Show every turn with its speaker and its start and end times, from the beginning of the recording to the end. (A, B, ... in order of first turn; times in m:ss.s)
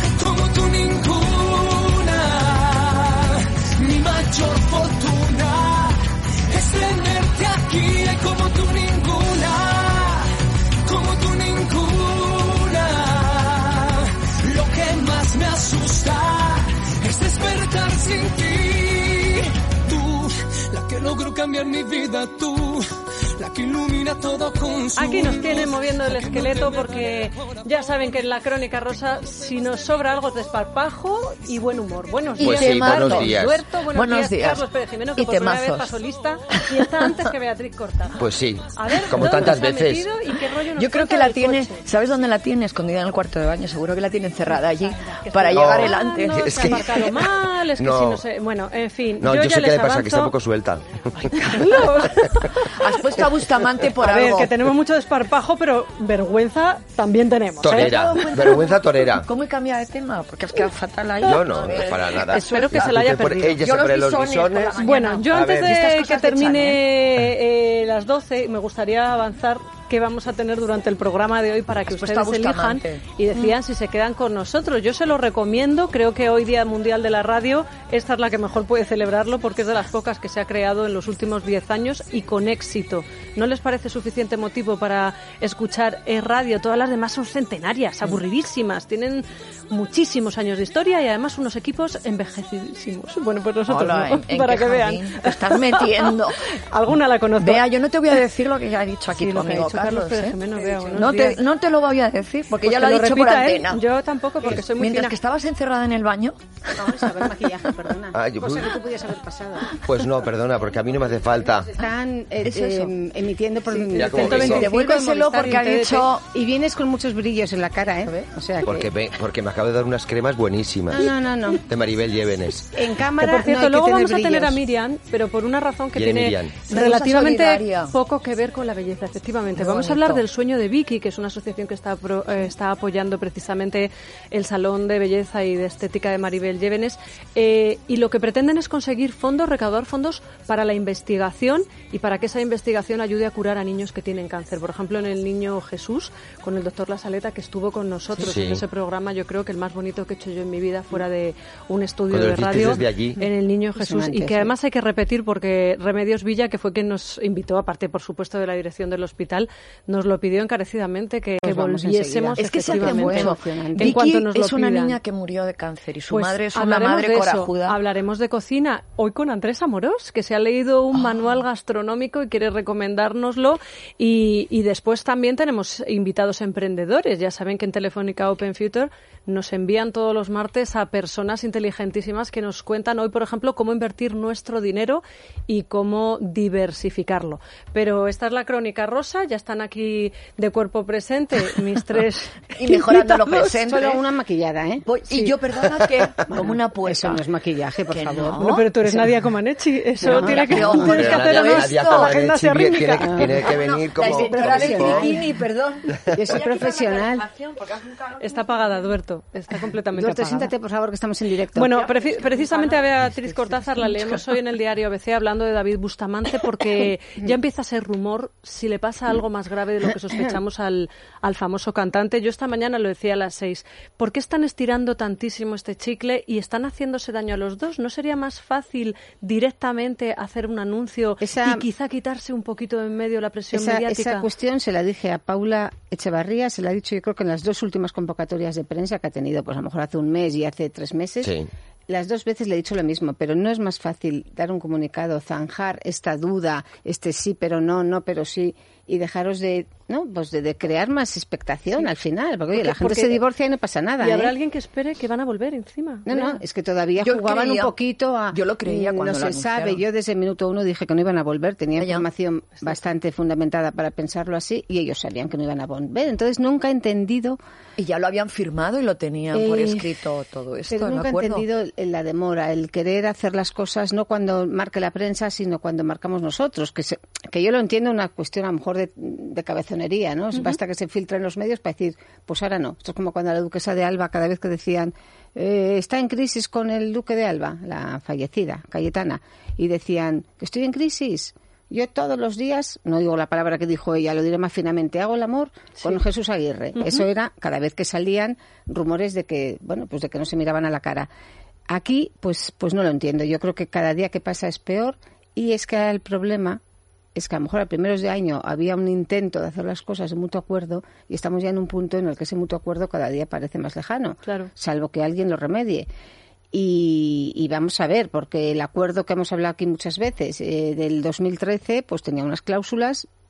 0:00.1-0:10.3 A
0:10.8-0:27.5 A
0:25.0-0:38.2 B
0:32.4-0:33.6 C
0:32.4-0:34.6 D
0:35.2-0:36.0 D
0:38.2-0:40.1 C
0:38.7-0:41.8 B
0:39.2-0:39.5 D
0:40.8-0:47.0 D
0:44.4-0:50.3 B
0:45.5-0:47.2 C
0:47.8-0:48.2 C
0:49.2-0:51.7 C
0:51.2-0:52.8 B
0:52.6-0:54.5 D
0:54.0-0:58.2 B
0:57.6-0:59.3 C
0:57.7-1:03.0 D
1:01.2-1:04.8 C
1:02.3-1:03.6 B
1:03.6-1:06.8 D
1:04.8-1:38.2 B
1:05.3-1:05.8 C
1:11.8-1:13.5 D
1:33.7-1:36.5 D
1:37.4-1:40.4 D
1:39.1-1:41.4 B
1:40.6-1:41.2 E
1:40.9-1:43.8 D
1:42.6-1:45.2 B
1:44.4-1:47.0 D
1:46.7-1:49.8 E
1:48.1-1:48.7 C
1:49.8-1:51.8 C
1:51.7-1:54.6 E
1:52.4-1:52.9 D
1:53.9-1:54.7 C
1:53.9-1:56.1 B
1:54.1-1:56.3 D
1:56.3-1:58.9 E
1:58.6-2:01.1 C
2:00.9-2:01.6 E
2:01.6-2:02.7 C
2:02.7-2:04.6 E
2:03.2-2:45.0 B
2:05.9-2:06.6 C
2:06.7-2:07.9 D
2:09.5-2:10.2 D
2:28.2-2:28.6 C
2:32.1-2:33.2 C
2:33.7-2:34.5 E
2:41.4-2:44.0 E
2:42.4-2:47.8 D
2:46.1-3:13.4 B
3:12.5-3:14.0 D
3:13.6-3:14.8 E
3:14.8-3:17.2 D
3:16.3-3:18.4 E
3:17.9-3:18.7 D
3:18.4-3:23.3 B
3:20.0-3:20.9 E
3:20.0-3:22.1 D
3:20.6-3:25.1 C
3:23.1-3:23.4 E
3:23.2-3:28.5 D
3:24.0-3:25.3 E
3:26.1-3:27.2 E
3:28.2-3:30.5 B
3:29.9-3:32.7 E
3:31.5-3:54.2 B
3:32.3-3:34.2 D
3:51.2-3:51.6 E
3:53.5-4:01.3 E
4:01.2-4:01.5 C
4:01.9-4:14.3 E
4:12.5-4:13.2 B
4:14.0-4:16.4 B
4:16.1-4:27.4 E
4:17.0-4:17.7 D
4:18.3-4:19.8 D
4:21.8-4:22.1 D
4:27.8-4:31.4 D
4:29.3-4:29.9 E
4:30.7-5:01.1 E
4:56.8-4:57.0 B
5:01.7-5:06.6 E
5:07.1-5:15.9 E
5:14.2-5:14.5 B
5:16.5-5:23.0 E